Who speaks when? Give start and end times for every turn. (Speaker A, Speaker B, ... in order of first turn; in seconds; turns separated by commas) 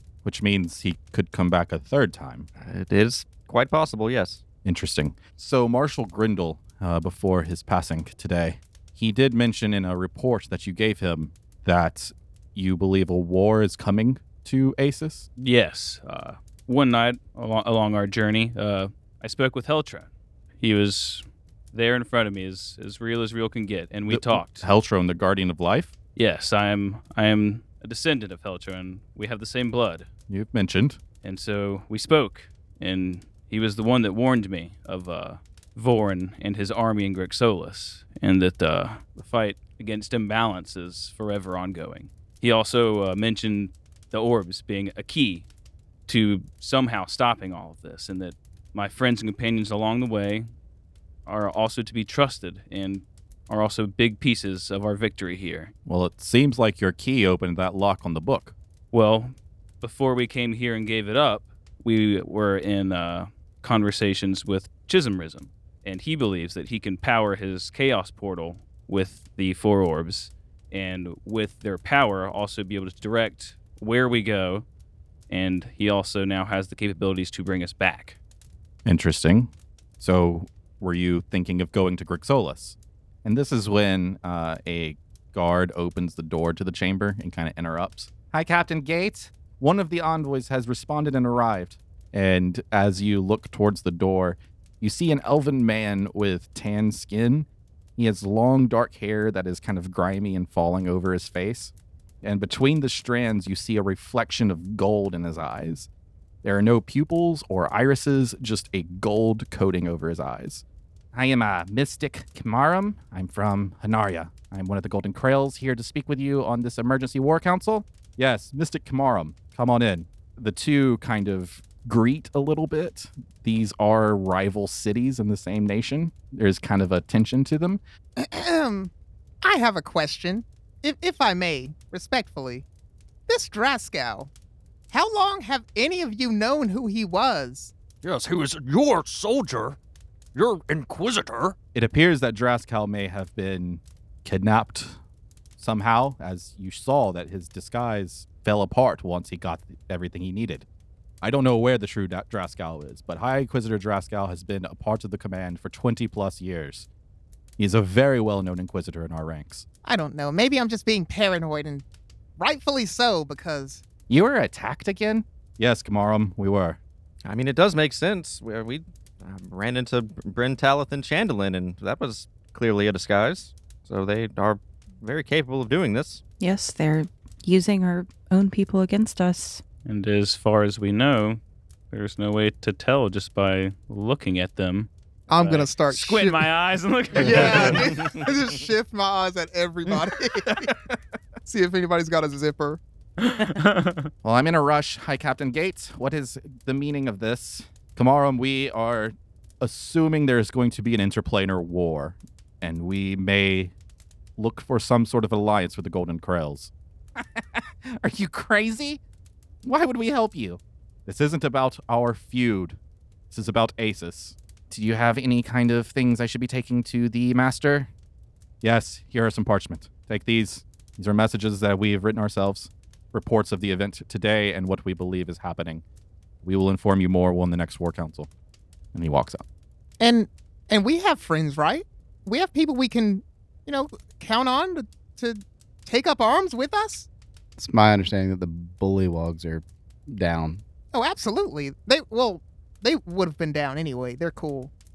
Speaker A: 0.2-2.5, Speaker B: 2.6-4.4, Speaker A: 4.6-15.3, Speaker C: 15.4-24.7, Speaker A: 24.1-25.9, Speaker C: 26.2-30.1, Speaker A: 30.3-31.0, Speaker C: 31.2-45.5, Speaker C: 46.1-50.5, Speaker C: 51.3-55.7, Speaker A: 55.9-58.5, Speaker C: 58.9-74.7, Speaker C: 75.3-78.2, Speaker A: 78.8-105.9, Speaker A: 106.4-127.8, Speaker D: 128.2-132.7, Speaker D: 133.3-134.3, Speaker D: 134.9-137.7, Speaker E: 138.0-139.8, Speaker E: 140.3-141.6, Speaker A: 141.7-145.0, Speaker A: 145.6-150.7, Speaker A: 151.2-156.9, Speaker A: 157.6-159.7, Speaker D: 159.8-161.8, Speaker D: 162.4-163.8, Speaker A: 164.1-166.8, Speaker B: 167.2-176.2, Speaker F: 176.4-179.6, Speaker C: 179.8-181.4, Speaker C: 181.9-188.0, Speaker D: 185.3-186.5, Speaker D: 187.2-190.7, Speaker B: 187.7-188.3, Speaker D: 191.4-192.8, Speaker C: 193.2-194.1, Speaker A: 194.2-203.7, Speaker A: 204.4-209.0, Speaker A: 209.6-212.8, Speaker A: 213.3-217.9, Speaker A: 218.6-225.8, Speaker A: 226.4-228.3, Speaker A: 228.9-229.4, Speaker D: 230.0-237.1, Speaker G: 237.6-240.6, Speaker D: 240.9-244.7